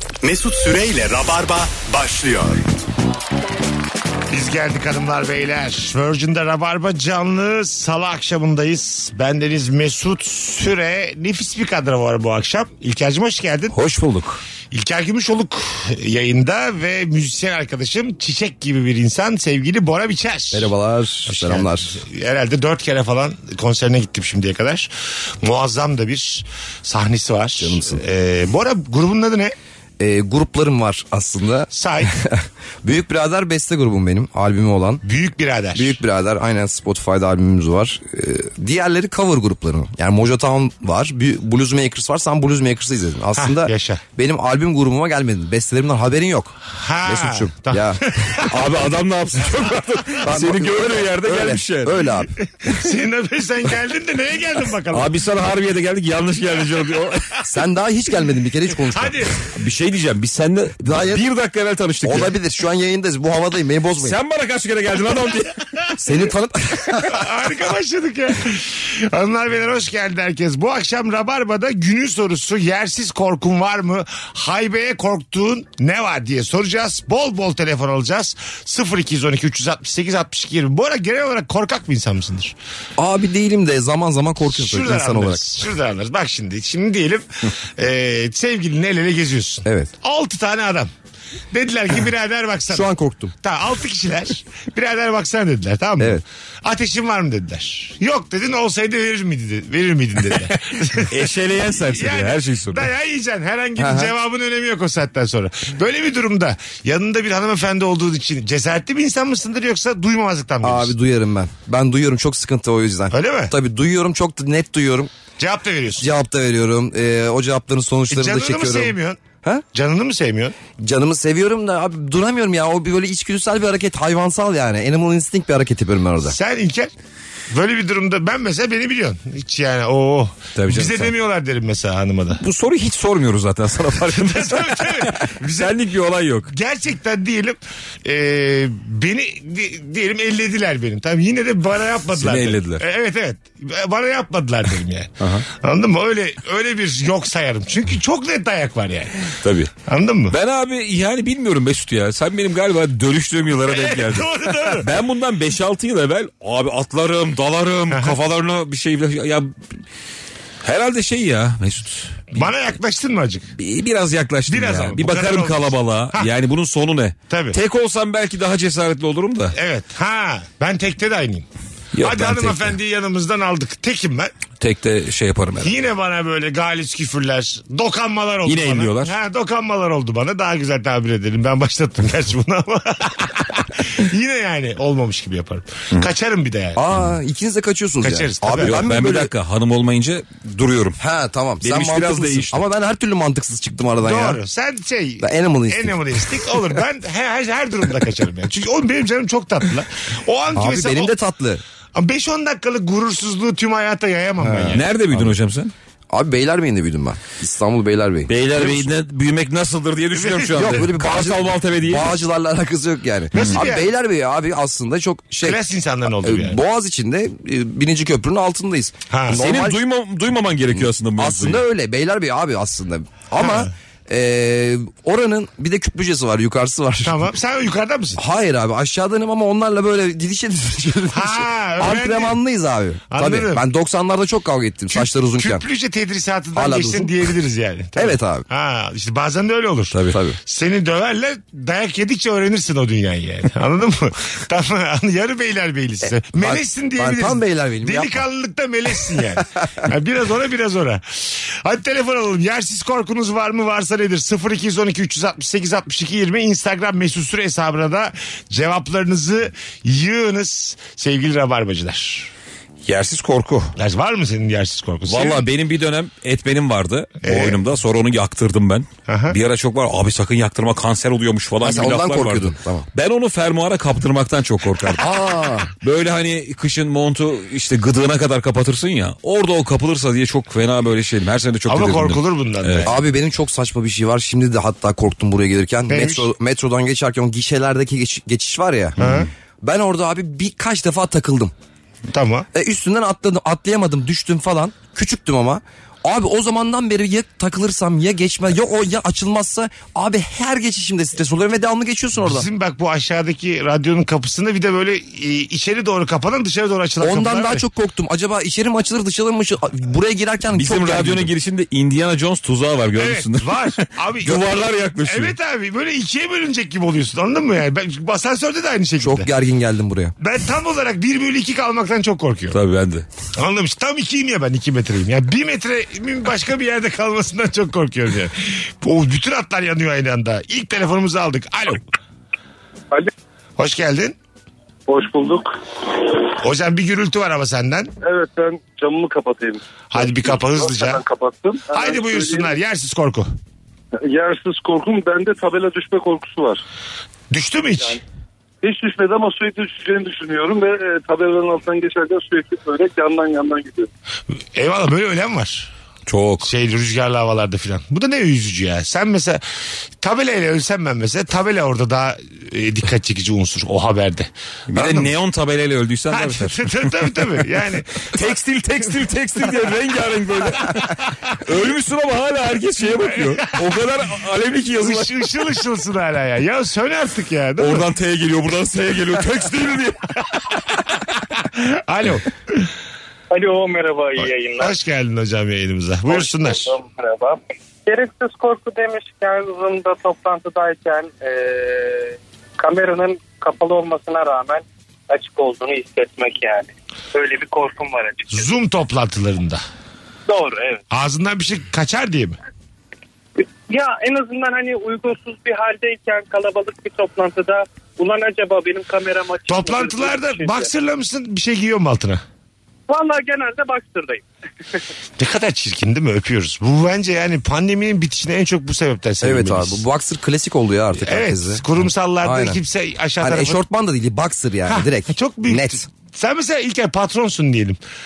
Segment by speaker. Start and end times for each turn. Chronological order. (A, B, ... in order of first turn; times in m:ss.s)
0:00.2-0:02.7 A
0:04.3-0:13.7 B
0:13.7-0:14.4 C
0:14.7-0:20.7 B
0:20.5-0:22.0 D
0:21.3-0:24.9 B
0:25.4-0:29.5 B
0:27.6-0:28.0 D
0:30.0-0:35.0 D
0:31.7-0:32.2 B
0:35.0-0:36.0 B
0:35.7-0:48.0 D
0:43.4-0:44.0 B
0:46.7-0:48.6 B
0:48.5-0:52.1 C
0:50.2-0:52.3 D
0:52.6-0:55.1 B
0:54.9-0:57.4 C
0:57.4-0:59.2 D
0:58.9-0:59.3 B
0:59.5-1:02.3 C
1:00.8-1:01.2 D
1:02.0-1:04.2 D
1:04.0-1:05.6 C
1:06.0-1:07.2 D
1:07.1-1:22.5 B
1:23.0-1:25.4 D
1:24.5-1:30.9 B
1:29.6-1:29.9 D
1:31.5-1:32.9 B
1:32.7-1:33.3 D
1:33.4-1:50.9 B
1:41.1-1:42.9 C
1:43.8-1:44.1 D
1:50.6-1:55.1 D
1:53.1-1:53.5 B
1:55.4-1:56.0 B
1:56.0-1:59.6 D
1:58.1-1:59.2 B
1:59.7-2:00.6 B
2:00.8-2:06.3 D
2:06.2-2:06.9 B
2:07.5-2:12.4 B
2:10.5-2:11.1 C
2:12.4-2:16.5 C
2:14.1-2:15.8 B
2:16.5-2:29.3 B
2:22.1-2:22.8 C
2:25.2-2:25.4 C
2:29.4-2:29.7 C
2:29.8-2:30.4 B
2:30.3-2:39.5 C
2:33.6-2:34.9 B
2:40.6-2:42.4 C
2:42.3-2:43.5 B
2:43.6-2:49.5 C
2:44.5-2:46.3 B
2:47.3-2:47.6 B
2:49.5-2:51.4 B
2:51.9-2:52.7 C
2:52.0-2:54.3 B
2:54.6-2:55.8 C
2:55.6-3:06.8 B
2:58.4-2:59.1 C
3:06.8-3:09.3 D
3:08.0-3:08.7 B
3:08.6-3:11.0 C
3:11.0-3:14.4 D
3:11.6-3:12.7 C
3:14.0-3:21.1 B
3:15.2-3:16.0 D
3:20.5-3:21.6 D
3:21.9-3:24.9 B
3:24.4-3:25.3 D
3:24.7-3:25.7 C
3:26.1-3:28.3 D
3:28.3-3:32.2 C
3:30.1-3:30.8 B
3:30.5-3:35.6 D
3:33.3-3:33.9 B
3:33.3-3:33.6 C
3:35.4-3:36.6 B
3:36.2-3:39.8 D
3:39.1-3:39.4 B
3:39.3-3:41.6 C
3:41.2-3:47.2 D
3:43.4-3:43.7 B
3:47.0-3:48.2 B
3:48.2-3:55.6 D
3:51.1-3:52.4 B
3:53.1-3:53.6 B
3:54.9-4:22.3 B
3:56.6-3:57.1 D
3:58.0-3:58.4 D
3:59.9-4:00.2 C
4:00.1-4:00.4 D
4:06.1-4:08.2 D
4:22.8-4:23.7 C
4:23.8-4:25.4 B
4:25.1-4:35.0 C
4:27.2-4:27.6 B
4:29.1-4:29.4 B
4:31.6-4:32.9 D
4:35.0-4:35.7 D
4:35.8-4:42.9 C
4:41.7-4:43.0 B
4:42.8-4:49.0 D
4:45.9-4:46.3 B
4:49.0-4:49.3 B
4:49.0-4:49.3 C
4:49.6-4:51.5 D
4:52.1-4:52.5 B
4:52.5-5:02.5 D
5:02.2-5:07.6 B
5:07.0-5:11.3 D
5:10.6-5:15.4 C
5:13.0-5:19.3 B
5:19.0-5:20.1 D
5:20.2-5:22.6 B
5:22.5-5:23.1 C
5:23.3-5:31.8 B
5:33.6-5:34.2 B
5:34.9-5:35.4 E
5:36.4-5:37.9 B
5:38.0-5:42.5 E
5:39.9-5:41.0 B
5:41.7-5:43.3 B
5:44.0-5:46.6 E
5:47.3-5:48.0 B
5:48.6-5:53.9 E
5:54.5-5:55.7 B
5:56.1-5:56.5 C
5:56.4-5:59.4 B
6:00.0-6:05.1 B
6:04.7-6:07.2 C
6:06.1-6:08.2 B
6:08.1-6:15.3 C
6:13.0-6:13.6 B
6:14.8-6:17.9 B
6:17.6-6:20.2 C
6:21.3-6:22.7 B
6:23.3-6:24.7 F
6:24.6-6:26.7 B
6:26.1-6:38.5 F
6:38.3-6:39.6 B
6:40.3-6:40.8 F
6:40.9-6:42.4 B
6:43.4-6:50.7 F
6:49.5-6:52.2 B
6:52.9-6:54.2 F
6:55.2-6:59.8 B
6:59.2-7:01.6 D
7:01.0-7:03.6 B
7:02.2-7:02.6 D
7:03.2-7:05.8 D
7:04.7-7:07.8 B